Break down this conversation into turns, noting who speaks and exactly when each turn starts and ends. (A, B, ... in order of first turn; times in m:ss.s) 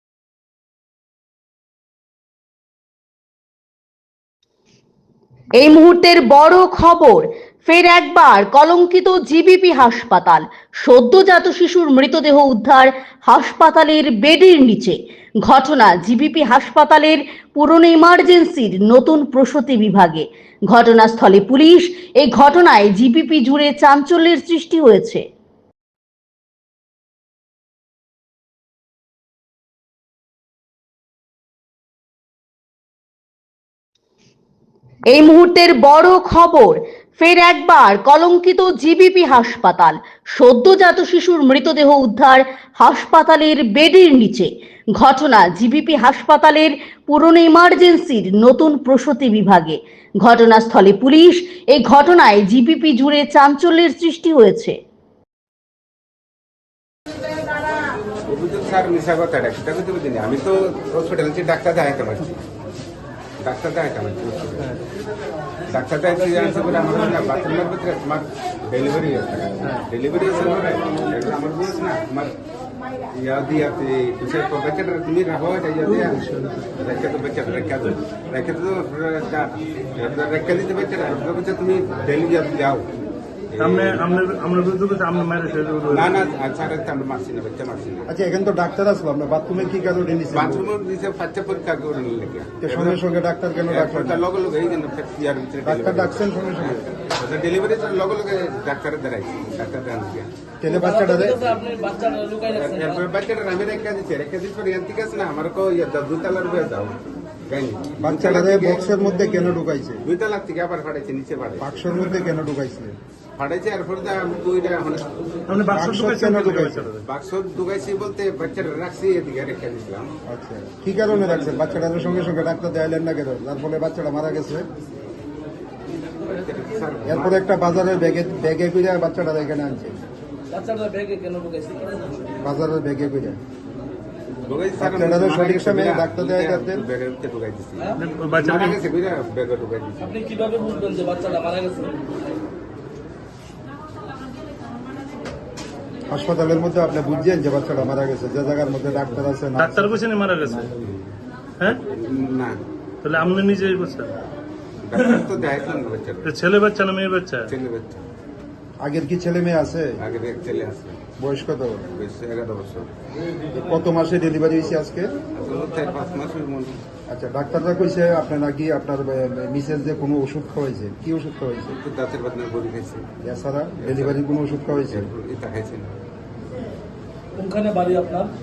0:05.6-0:25.2 A
0:35.1-0:54.8 A
0:58.3-1:02.4 B
1:03.4-1:04.8 B
1:05.7-1:12.4 B
1:13.1-1:16.3 B
1:15.9-1:16.6 C
1:16.8-1:22.9 B
1:23.5-1:24.0 B
1:23.6-1:26.1 C
1:25.9-1:28.1 B
1:28.1-1:30.7 D
1:30.3-1:33.0 B
1:32.6-1:34.2 D
1:33.7-1:40.3 B
1:35.6-1:36.8 D
1:40.6-1:41.5 D
1:40.7-1:43.0 E
1:42.5-1:47.0 B
1:47.5-1:49.6 B
1:48.0-1:50.0 D
1:50.1-1:51.8 B
1:51.6-1:53.0 D
1:53.4-1:55.2 B
1:55.5-1:57.0 C
1:55.7-1:56.9 D
1:57.1-2:00.1 B
2:00.3-2:04.7 D
2:06.3-2:07.4 B
2:07.1-2:10.0 D
2:10.5-2:12.1 E
2:12.4-2:13.4 D
2:14.5-2:20.2 B
2:14.8-2:16.8 D
2:18.0-2:18.8 C
2:20.0-2:22.0 E
2:26.1-2:29.9 D
2:29.6-2:30.8 C
2:31.9-2:32.6 B
2:33.0-2:34.2 C
2:34.8-2:36.3 B
2:35.0-2:35.2 C
2:36.2-2:37.5 C
2:37.5-2:38.0 B
2:38.8-2:40.0 D
2:40.0-2:41.0 B
2:41.2-2:41.8 D
2:42.0-2:42.9 B
2:43.5-2:45.1 D
2:45.4-2:46.8 B
2:47.1-2:51.8 D
2:51.8-2:53.0 B
2:53.2-2:55.1 D
2:53.8-2:54.2 B
2:54.9-2:55.9 B
2:57.4-2:58.3 E